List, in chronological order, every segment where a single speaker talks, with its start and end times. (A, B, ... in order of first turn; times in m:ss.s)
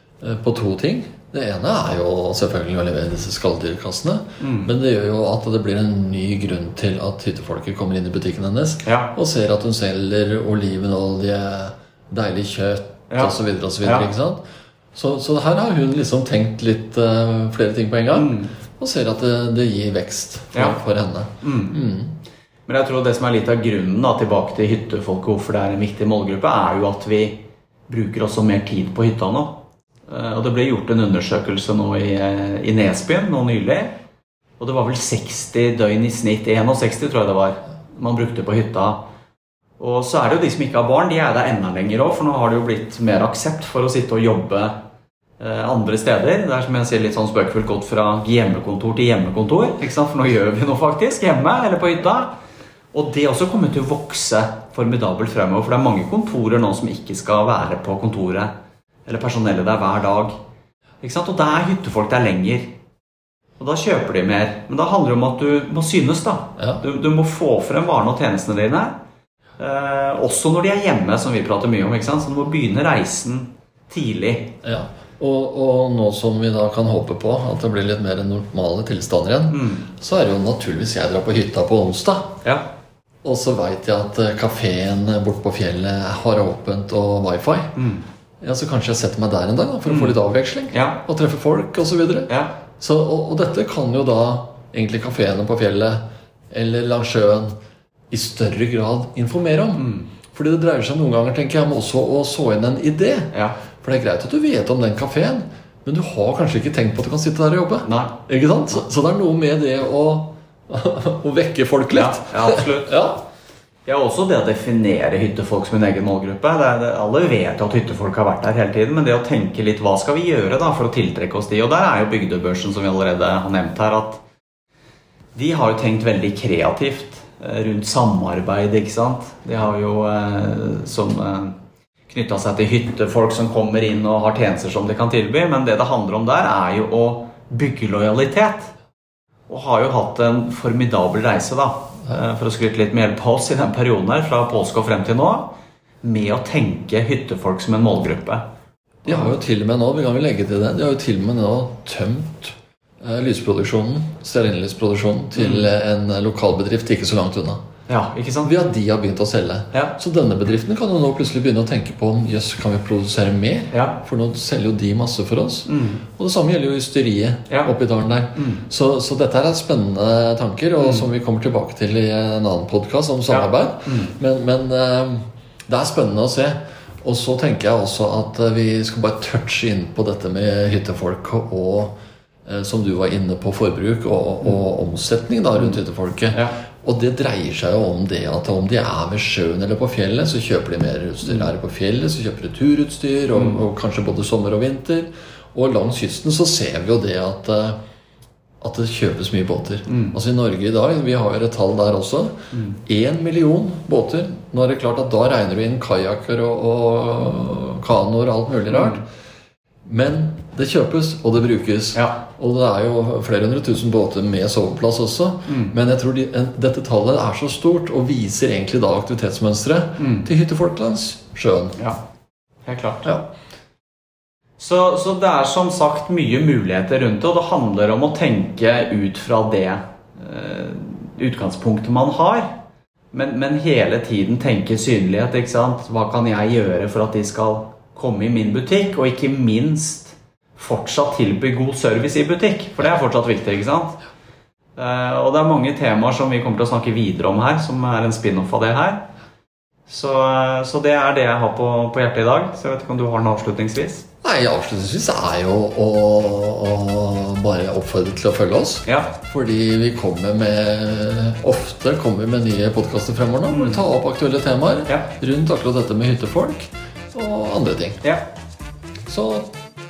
0:00.2-0:14.4 A
0:04.4-0:04.7 B
0:08.8-0:09.1 B
0:13.1-0:14.1 B
0:14.9-0:22.1 A
0:18.1-0:18.5 B
0:21.4-0:21.8 B
0:22.7-0:34.0 B
0:34.6-0:39.0 B
0:39.8-0:44.7 B
0:45.4-0:52.3 B
0:52.9-0:58.5 B
0:59.1-1:00.3 B
1:01.0-1:02.7 B
1:03.6-1:08.9 B
1:06.6-1:06.8 A
1:09.6-1:14.6 B
1:14.6-1:22.4 A
1:19.5-1:19.9 B
1:23.2-1:27.8 A
1:27.8-1:28.0 B
1:28.4-1:37.5 A
1:29.9-1:30.2 B
1:30.7-1:31.0 B
1:32.3-1:32.6 B
1:38.1-1:53.2 A
1:39.8-1:40.1 B
1:43.3-1:43.6 B
1:47.8-1:48.2 B
1:51.9-1:53.0 B
1:53.9-2:04.2 B
2:05.3-2:11.6 B
2:12.1-2:18.7 B
2:19.5-2:28.4 B
2:29.1-2:29.4 B
2:29.1-2:37.6 A
2:35.4-2:35.7 B
2:37.9-2:38.5 B
2:38.4-3:01.9 A
2:43.7-2:44.0 B
2:45.7-2:46.0 B
2:48.4-2:48.6 B
2:50.8-2:51.0 B
2:53.3-2:54.1 B
3:02.5-3:17.8 A
3:13.4-3:13.6 B
3:18.6-3:22.3 A
3:19.9-3:20.2 B
3:22.8-3:29.0 A
3:28.7-3:29.0 B
3:29.9-3:41.8 A
3:35.5-3:35.8 B
3:40.0-3:40.3 B
3:42.7-3:43.1 B
3:44.6-3:52.5 B
3:53.1-4:04.0 B
4:04.8-4:09.0 B
4:09.9-4:14.1 B
4:14.2-4:28.0 A
4:18.9-4:19.1 B
4:23.5-4:23.8 B
4:29.1-4:29.5 A